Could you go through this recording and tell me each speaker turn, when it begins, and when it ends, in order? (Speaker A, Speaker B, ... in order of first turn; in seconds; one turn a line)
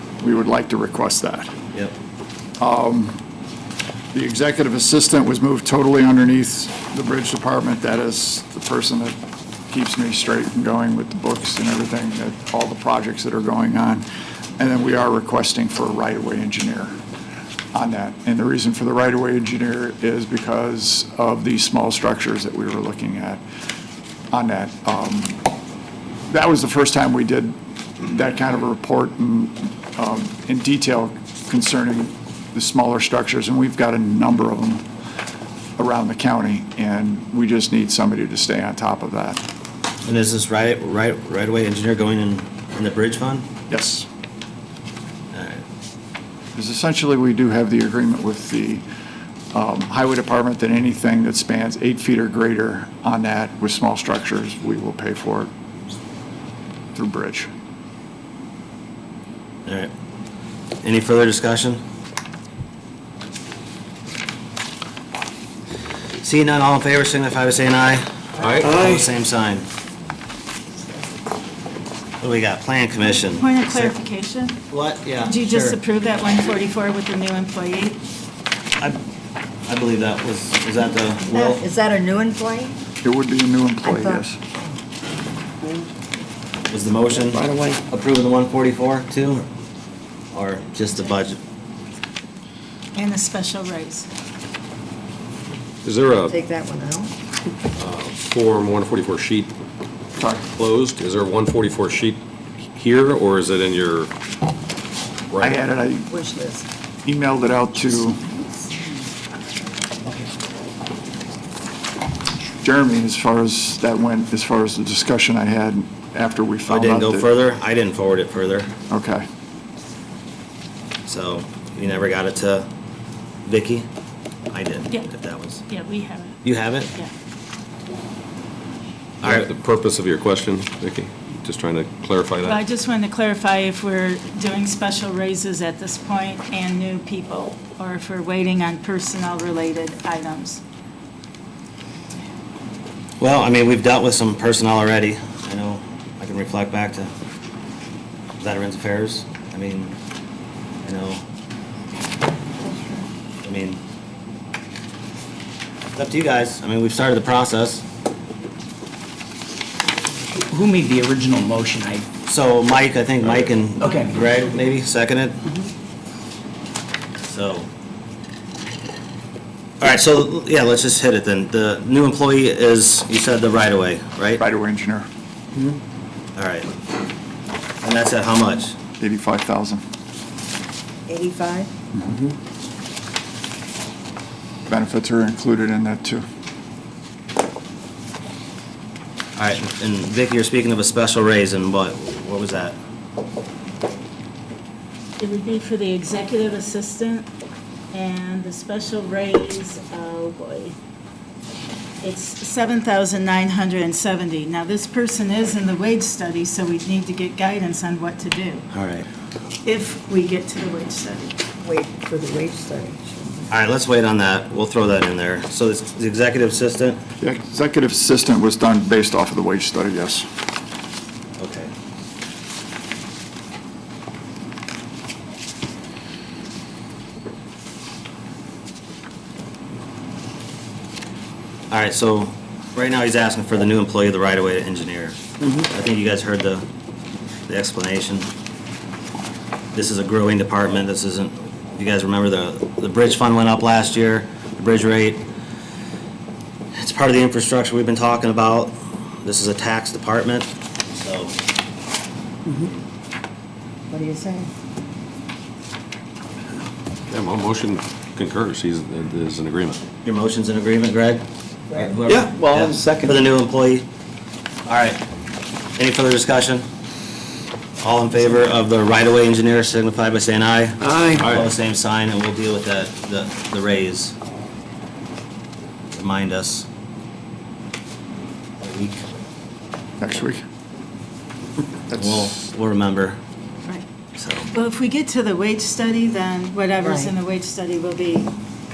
Speaker A: 0.2-1.5
Speaker A: 2.6-3.2
Speaker A: 4.1-9.2
Speaker A: 9.7-14.1
Speaker A: 14.6-17.0
Speaker A: 17.7-23.4
Speaker A: 24.3-25.4
Speaker A: 26.3-34.9
Speaker A: 35.8-39.4
Speaker B: 40.0-43.5
Speaker A: 43.7-44.1
Speaker B: 45.3-45.6
Speaker A: 46.5-48.8
Speaker A: 49.5-55.5
Speaker A: 57.0-57.5
Speaker B: 59.7-59.9
Speaker B: 60.8-61.8
Speaker B: 66.2-69.7
Speaker C: 68.4-69.0
Speaker B: 72.2-74.0
Speaker D: 73.1-74.6
Speaker B: 74.7-75.8
Speaker D: 75.2-78.0
Speaker B: 79.7-81.6
Speaker E: 81.3-82.8
Speaker A: 83.0-84.4
Speaker E: 83.8-84.2
Speaker B: 86.7-89.5
Speaker B: 90.3-91.4
Speaker D: 93.0-94.1
Speaker C: 95.8-96.3
Speaker E: 96.3-97.1
Speaker C: 97.8-99.5
Speaker C: 100.5-102.2
Speaker C: 102.8-104.1
Speaker C: 105.3-105.6
Speaker A: 105.4-106.1
Speaker E: 106.1-106.7
Speaker A: 107.0-108.2
Speaker E: 108.1-108.8
Speaker A: 112.6-117.3
Speaker B: 116.7-118.7
Speaker A: 118.9-119.3
Speaker B: 121.1-122.7
Speaker B: 123.5-123.9
Speaker B: 124.5-125.6
Speaker D: 125.7-126.4
Speaker B: 126.4-126.9
Speaker C: 129.2-132.6
Speaker D: 132.5-140.6
Speaker B: 143.2-147.1
Speaker B: 148.4-149.9
Speaker B: 150.8-151.2
Speaker E: 152.6-153.1
Speaker B: 153.4-153.8
Speaker B: 155.9-157.8
Speaker F: 160.3-162.1
Speaker B: 162.3-165.4
Speaker F: 163.8-164.3
Speaker B: 167.3-167.7
Speaker B: 169.8-174.4
Speaker A: 174.4-175.1
Speaker B: 176.4-176.7
Speaker B: 177.8-178.8
Speaker A: 179.0-179.8
Speaker E: 181.1-181.7
Speaker A: 184.7-186.2
Speaker B: 189.4-192.8
Speaker D: 195.2-197.3
Speaker D: 197.9-200.8
Speaker D: 202.0-208.7
Speaker B: 208.7-209.1
Speaker D: 209.6-211.4
Speaker E: 211.6-213.5
Speaker B: 213.5-217.0
Speaker A: 217.2-220.3
Speaker B: 221.4-221.7
Speaker B: 231.7-236.6
Speaker B: 237.5-238.3
Speaker B: 239.7-245.2
Speaker B: 246.7-251.3
Speaker E: 253.9-254.5
Speaker C: 257.1-259.8
Speaker B: 260.0-261.2
Speaker B: 261.8-263.9
Speaker C: 262.1-262.8
Speaker B: 264.7-265.0
Speaker B: 265.8-266.6
Speaker B: 267.8-274.1
Speaker C: 270.9-271.4
Speaker B: 275.9-276.6
Speaker B: 278.6-279.0
Speaker A: 280.0-280.4
Speaker A: 281.9-282.3
Speaker B: 281.9-283.2
Speaker B: 284.2-284.5
Speaker D: 284.5-288.4
Speaker E: 286.8-287.1